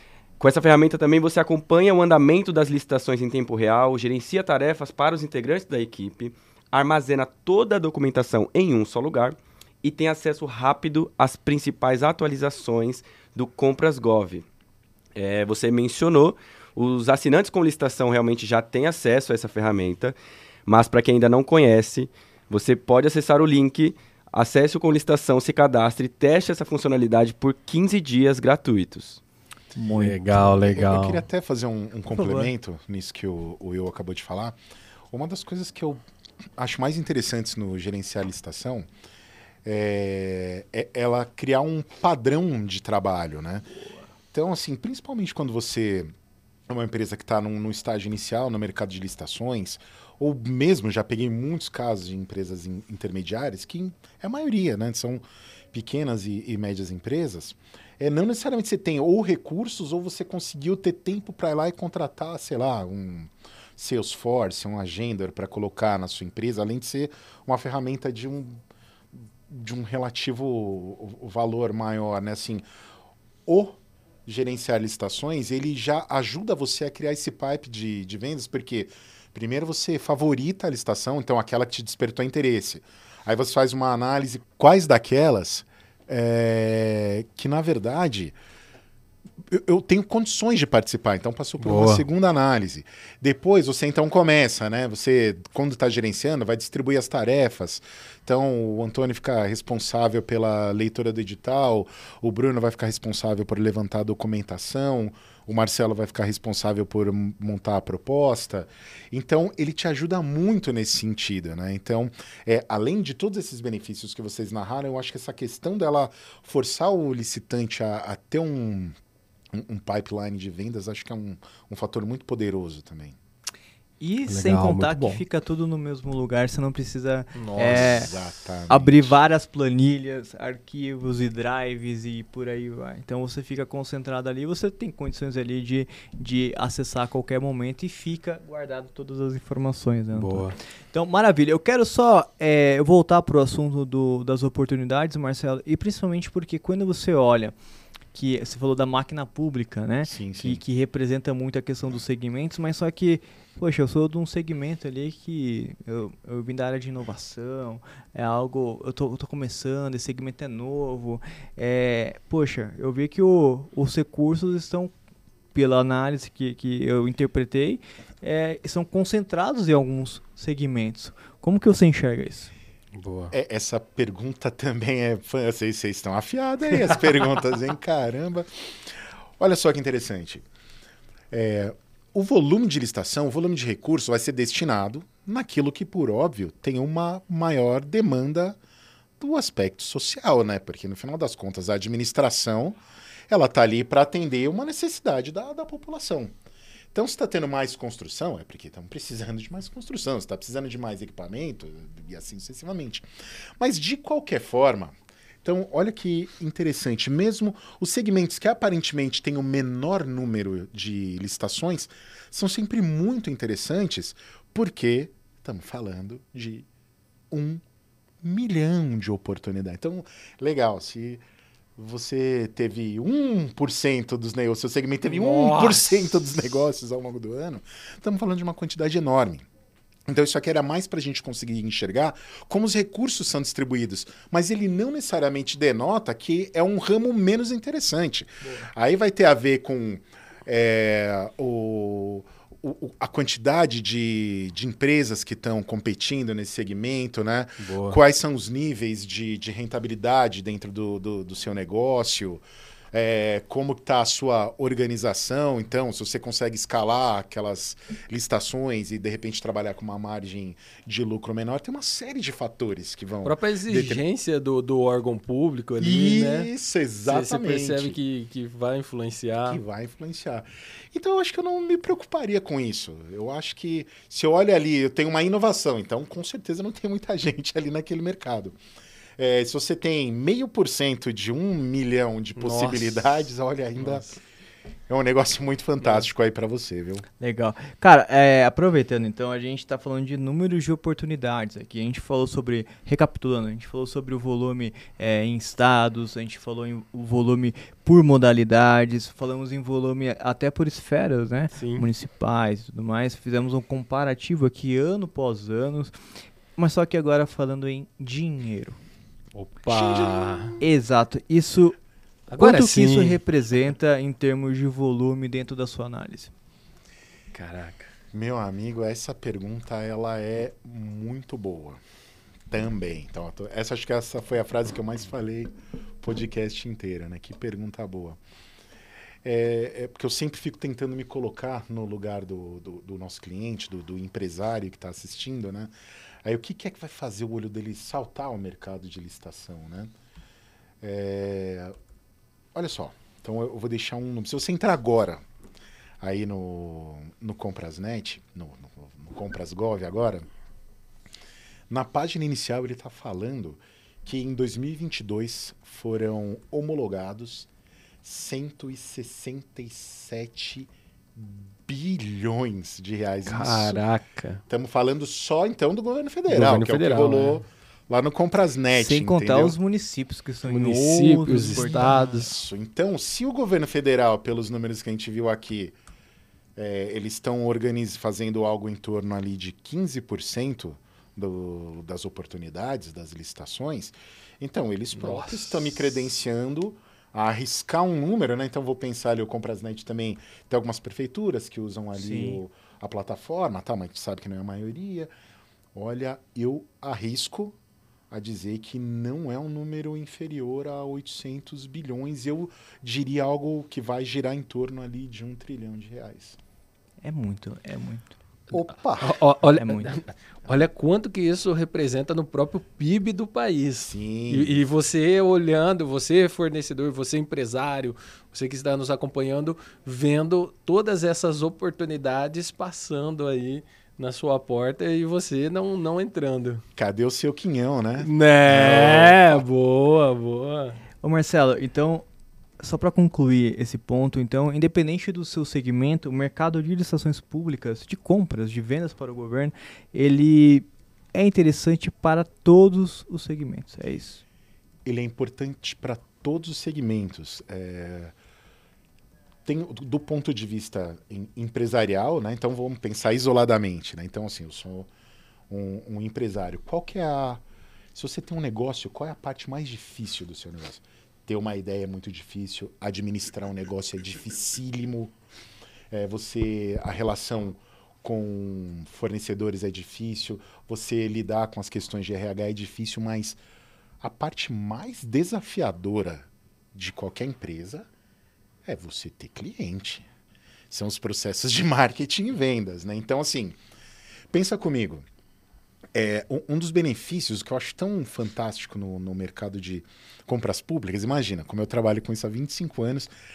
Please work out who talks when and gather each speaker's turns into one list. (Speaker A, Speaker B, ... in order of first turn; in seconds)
Speaker A: 0.4-14.4, 15.2-29.2
Speaker B: 29.8-30.6, 32.1-32.5, 124.0-128.1, 128.7-147.6, 148.1-164.9, 165.5-172.5, 287.2-305.9, 306.6-308.8, 310.6-311.8, 312.4-316.3, 368.7-372.2, 391.9-392.4, 407.0-408.2, 409.6-410.0, 431.0-432.1, 432.6-444.2
Speaker C: 30.0-31.2, 91.6-92.0, 124.3-125.2, 127.3-128.1, 140.1-140.6, 172.9-173.3, 225.1-226.1, 247.6-248.0, 263.2-266.5, 267.1-269.6, 282.4-283.1, 283.8-284.2, 285.8-286.1, 301.5-301.9, 309.3-310.6, 312.3-313.2, 317.3-317.9, 363.3-364.4, 366.3-367.4, 370.4-372.3, 384.9-385.7, 409.0-426.6, 428.0-430.8
Speaker D: 30.6-34.6, 35.1-36.0, 36.6-38.9, 39.6-43.6, 44.3-46.1, 46.7-68.6, 69.1-72.6, 73.5-88.3, 89.4-119.0, 119.5-123.2, 127.6-129.2, 150.1-150.6, 173.3-180.4, 181.3-188.6, 189.2-192.8, 193.3-196.3, 196.9-203.1, 203.6-216.7, 217.3-217.6, 218.2-221.2, 221.8-229.5, 230.1-264.0, 265.8-268.0, 269.5-278.6, 279.2-284.1, 284.9-287.1, 309.7-310.6, 318.1-321.8, 322.5-328.2, 329.2-335.7, 336.2-339.9, 340.8-341.8, 342.5-345.2, 346.0-350.3, 351.7-357.5, 358.0-363.8, 364.5-369.6, 371.6-375.8, 376.6-395.1, 395.8-397.6, 398.1-406.4, 408.5-409.2, 413.9-414.6, 426.8-429.4, 444.9-448.1, 449.5-454.9, 455.5-457.4, 457.9-465.1, 465.9-473.4, 474.0-477.9, 478.6-480.1, 480.7-483.6, 484.3-485.1, 485.9-493.1